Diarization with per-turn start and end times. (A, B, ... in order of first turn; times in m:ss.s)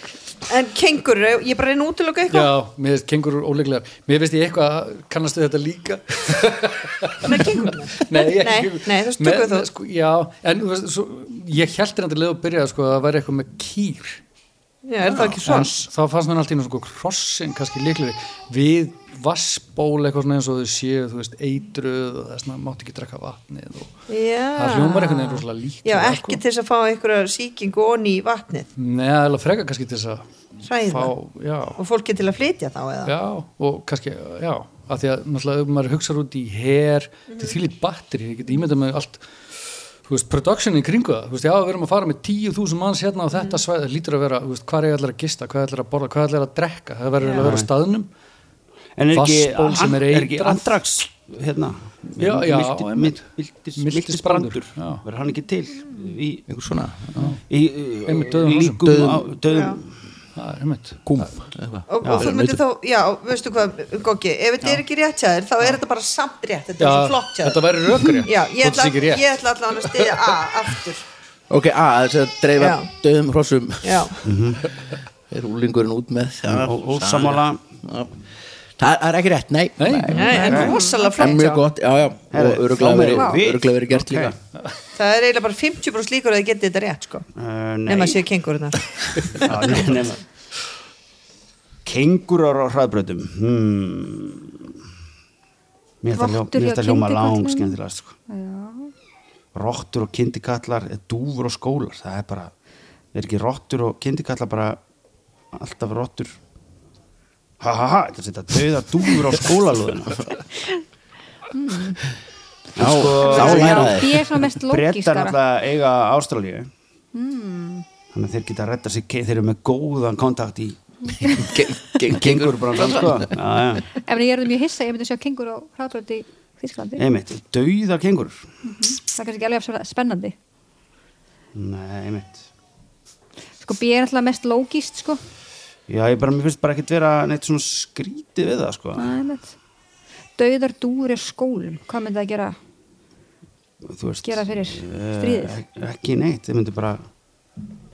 0:00.5-0:02.5 A
0:02.3-0:14.2 B
0:07.2-0:09.7 A
0:14.9-0:15.8 A
0:15.1-0:23.9 B
0:24.1-0:28.7 A
0:24.6-0:26.4 B
0:28.8-0:30.3 B
0:30.6-0:31.1 A
0:30.8-0:31.8 B
0:31.8-0:33.1 A
0:33.1-0:39.3 B
0:37.3-0:37.6 A
0:40.0-0:48.1 B
0:47.4-0:47.7 C
0:49.0-0:56.5 C
0:49.1-0:50.7 B
0:52.2-0:55.0 B
0:56.5-0:57.3 D
0:57.2-0:57.4 B
0:57.5-0:59.9 C
0:58.0-0:59.1 B
0:58.8-0:59.2 D
0:59.5-0:59.8 A
1:00.4-1:01.4 B
1:01.1-1:02.6 D
1:01.9-1:07.6 A
1:06.8-1:09.3 B
1:08.2-1:11.0 A
1:11.5-1:14.1 D
1:12.6-1:12.9 A
1:13.8-1:14.2 A
1:14.2-1:14.7 C
1:15.3-1:18.1 D
1:16.5-1:17.6 C
1:18.8-1:20.5 D
1:19.8-1:20.7 B
1:20.1-1:21.6 A
1:20.3-1:21.3 E
1:20.5-1:20.8 C
1:21.2-1:24.3 D
1:22.3-1:24.4 C
1:25.0-1:27.3 A
1:27.4-1:28.2 C
1:27.9-1:29.8 A
1:29.4-1:30.2 C
1:31.8-1:34.6 C
1:36.0-1:38.2 C
1:36.1-1:37.8 E
1:38.3-1:38.9 E
1:39.5-1:42.5 C
1:43.1-1:44.8 C
1:45.5-1:46.4 C
1:47.6-1:50.3 C
1:51.5-1:52.0 E
1:52.8-1:56.7 C
1:52.8-1:54.2 D
1:53.2-1:55.4 E
1:57.1-1:57.8 E
1:58.1-2:00.8 C
2:01.2-2:01.5 E
2:01.4-2:03.4 D
2:02.1-2:03.9 C
2:03.9-2:07.0 E
2:07.0-2:08.4 C
2:08.6-2:10.4 E
2:11.5-2:12.4 C
2:13.6-2:15.2 E
2:15.9-2:19.1 C
2:19.0-2:19.5 E
2:20.4-2:22.6 E
2:23.9-2:27.0 C
2:24.2-2:25.6 E